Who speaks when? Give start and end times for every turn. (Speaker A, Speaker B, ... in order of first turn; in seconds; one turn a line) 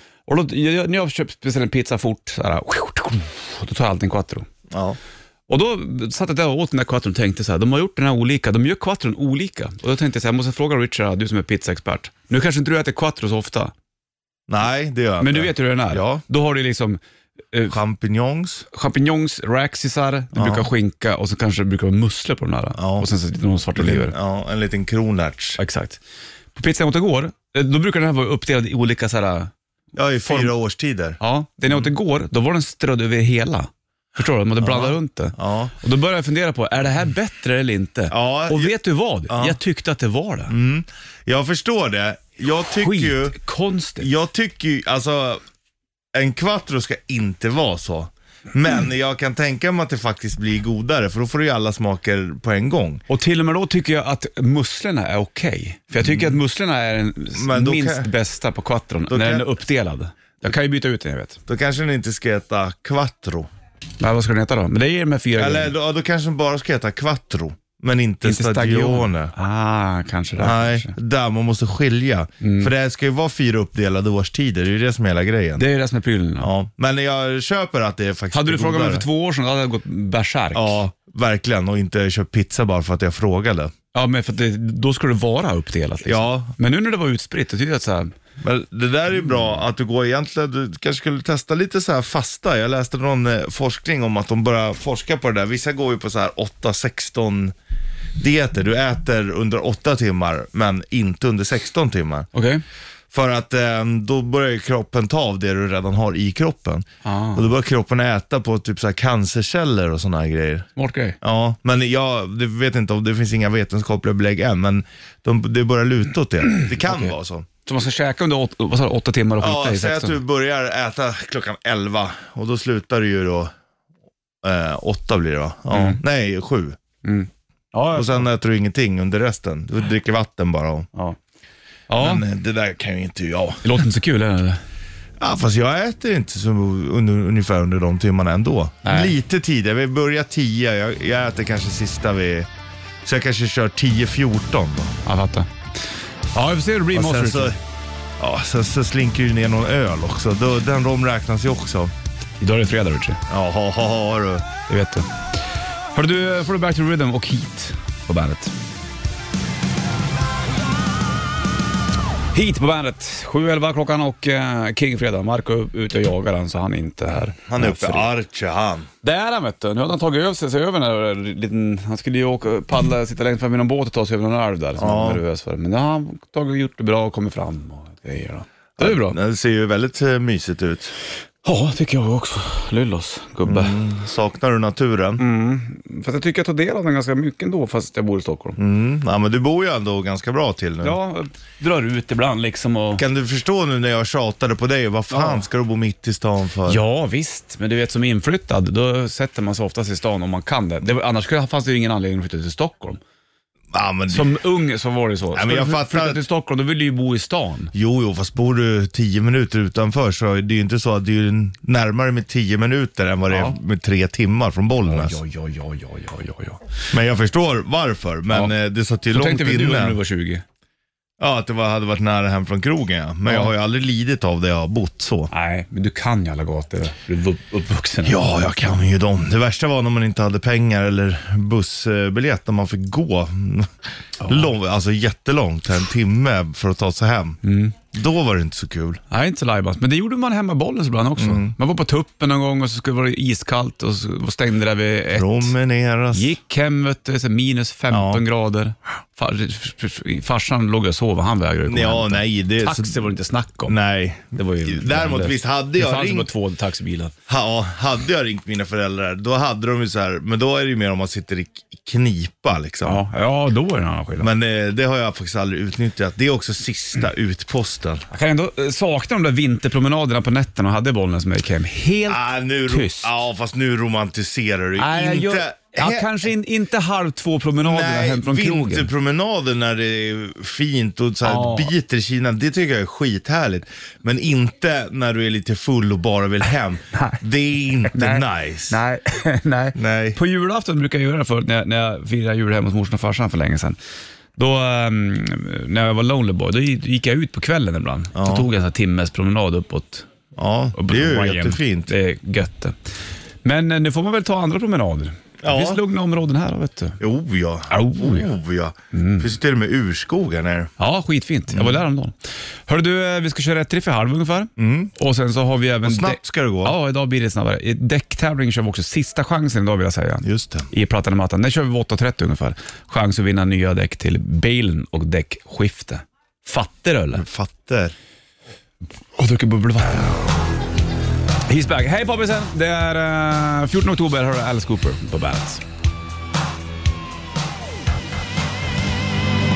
Speaker A: 0.3-4.5
Speaker B: 4.7-5.0
Speaker A: 5.5-13.7
Speaker B: 14.5-16.2
Speaker A: 15.2-17.0
Speaker B: 17.7-18.6
Speaker A: 18.7-24.1
Speaker B: 20.3-20.7
Speaker B: 22.8-23.1
Speaker B: 23.7-25.6
Speaker A: 25.6-26.0
Speaker A: 26.5-29.5
Speaker B: 29.9-31.9
Speaker A: 30.2-30.5
Speaker A: 31.2-40.5
Speaker B: 34.6-35.7
Speaker B: 38.1-38.8
Speaker B: 39.3-39.6
Speaker B: 40.5-43.4
Speaker A: 42.8-44.1
Speaker B: 44.0-45.4
Speaker B: 46.1-53.0
Speaker A: 53.1-61.4
Speaker B: 56.0-56.4
Speaker B: 57.3-58.1
Speaker B: 59.1-59.5
Speaker B: 61.5-63.5
Speaker A: 64.0-65.7
Speaker B: 65.3-69.3
Speaker A: 68.2-71.0
Speaker B: 70.4-75.6
Speaker A: 72.4-72.7
Speaker A: 75.6-76.5
Speaker B: 76.4-79.0
Speaker A: 78.3-80.8
Speaker B: 80.5-83.7
Speaker A: 83.9-88.1
Speaker B: 86.0-86.5
Speaker B: 88.4-97.5
Speaker B: 98.2-102.3
Speaker A: 102.3-102.6
Speaker B: 103.1-110.7
Speaker A: 107.0-107.5
Speaker A: 110.8-111.2
Speaker B: 111.2-117.5
Speaker A: 116.5-117.1
Speaker A: 117.7-120.2
Speaker B: 119.4-123.5
Speaker B: 124.4-126.8
Speaker A: 125.7-126.0
Speaker A: 127.0-128.3
Speaker B: 127.9-130.8
Speaker A: 131.9-132.2
Speaker B: 131.9-133.8
Speaker A: 133.6-134.6
Speaker B: 135.2-142.5
Speaker A: 138.8-139.1
Speaker B: 143.0-144.9
Speaker A: 145.0-145.5
Speaker A: 146.3-147.6
Speaker B: 146.9-147.6
Speaker B: 148.2-151.9
Speaker A: 152.4-153.2
Speaker B: 153.3-154.4
Speaker A: 154.7-155.1
Speaker A: 155.9-158.5
Speaker A: 162.3-168.1
Speaker B: 167.3-168.9
Speaker A: 169.0-179.2
Speaker B: 174.8-175.2
Speaker B: 178.8-180.9
Speaker A: 181.4-183.8
Speaker B: 183.4-185.2
Speaker A: 185.2-188.6
Speaker B: 188.6-191.0
Speaker A: 190.8-193.0
Speaker B: 193.0-196.8
Speaker A: 195.1-195.4
Speaker A: 196.7-203.0
Speaker B: 203.7-204.3
Speaker A: 204.1-207.7
Speaker B: 205.3-206.2
Speaker B: 207.7-215.2
Speaker A: 213.3-213.6
Speaker A: 214.8-216.6
Speaker B: 216.9-220.0
Speaker A: 219.1-220.4
Speaker B: 221.2-225.3
Speaker A: 225.3-228.4
Speaker B: 228.0-237.4
Speaker A: 234.2-234.5
Speaker A: 237.4-237.8
Speaker B: 237.9-239.0
Speaker A: 239.1-245.5
Speaker B: 241.2-241.5
Speaker B: 245.1-246.3
Speaker A: 246.1-253.7
Speaker B: 247.9-248.2
Speaker B: 251.7-253.1
Speaker B: 253.7-256.3
Speaker A: 254.3-257.1
Speaker B: 257.3-263.0
Speaker A: 262.8-264.3
Speaker B: 264.2-268.1
Speaker A: 268.1-273.1
Speaker B: 272.1-276.2
Speaker A: 274.8-278.9
Speaker B: 277.6-288.8
Speaker A: 281.2-281.7
Speaker A: 286.9-287.2
Speaker A: 287.9-293.8
Speaker B: 289.7-290.2
Speaker A: 294.4-300.1
Speaker B: 298.1-298.5
Speaker B: 300.4-301.9
Speaker A: 300.7-302.7
Speaker A: 303.4-307.0
Speaker B: 305.4-305.8
Speaker B: 307.0-310.7
Speaker A: 307.7-308.3
Speaker A: 308.9-309.3
Speaker A: 310.8-312.1
Speaker B: 311.5-311.8
Speaker A: 312.7-327.2
Speaker B: 314.6-314.9
Speaker B: 315.8-316.8
Speaker B: 320.2-320.7
Speaker B: 327.1-327.9
Speaker A: 329.2-330.2
Speaker A: 331.5-335.6